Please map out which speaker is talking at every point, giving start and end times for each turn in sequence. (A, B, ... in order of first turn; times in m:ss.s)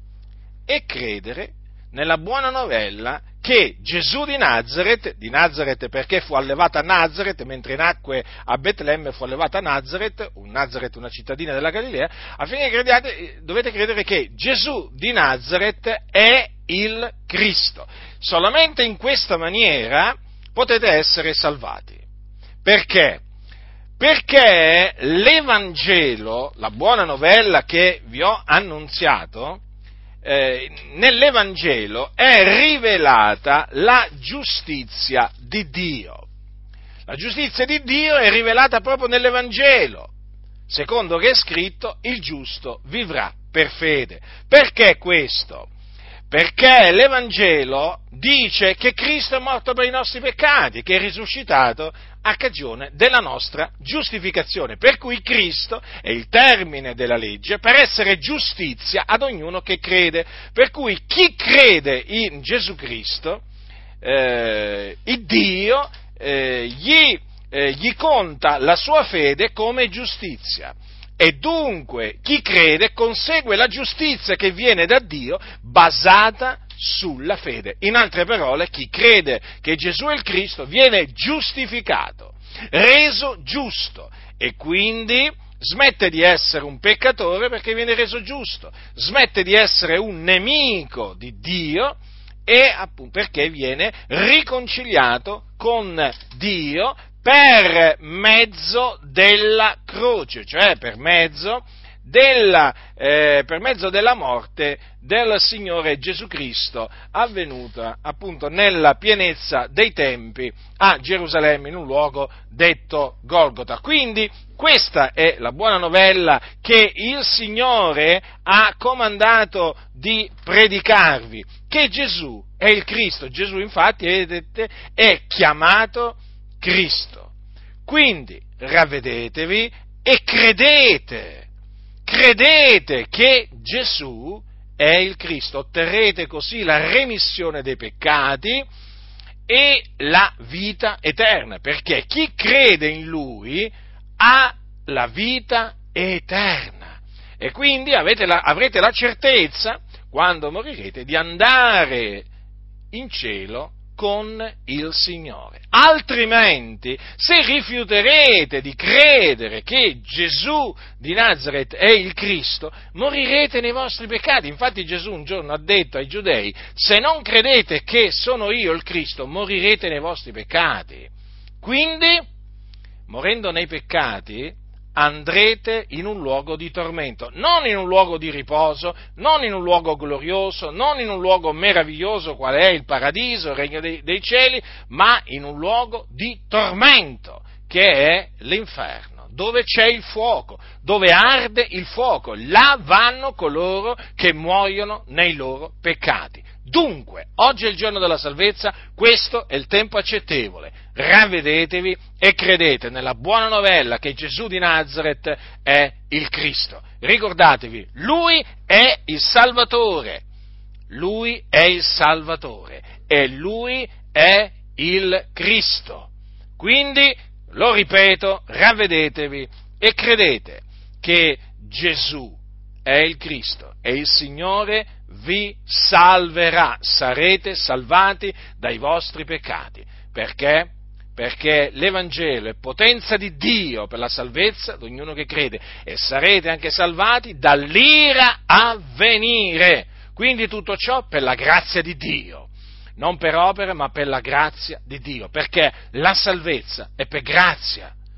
0:00.7-0:22.0 A
0:22.6-0:23.2 A
0:24.0-0:29.6 A
0:30.2-0:36.3 A
0:37.1-0:40.1 A
0:40.7-0:45.7 A
0:46.3-1:03.4 A
1:04.0-2:07.3 A
2:07.8-2:11.5 A
2:12.0-2:18.6 A
2:19.5-2:32.3 A
2:32.9-2:52.2 A
2:53.1-3:30.2 A
3:30.9-4:07.9 A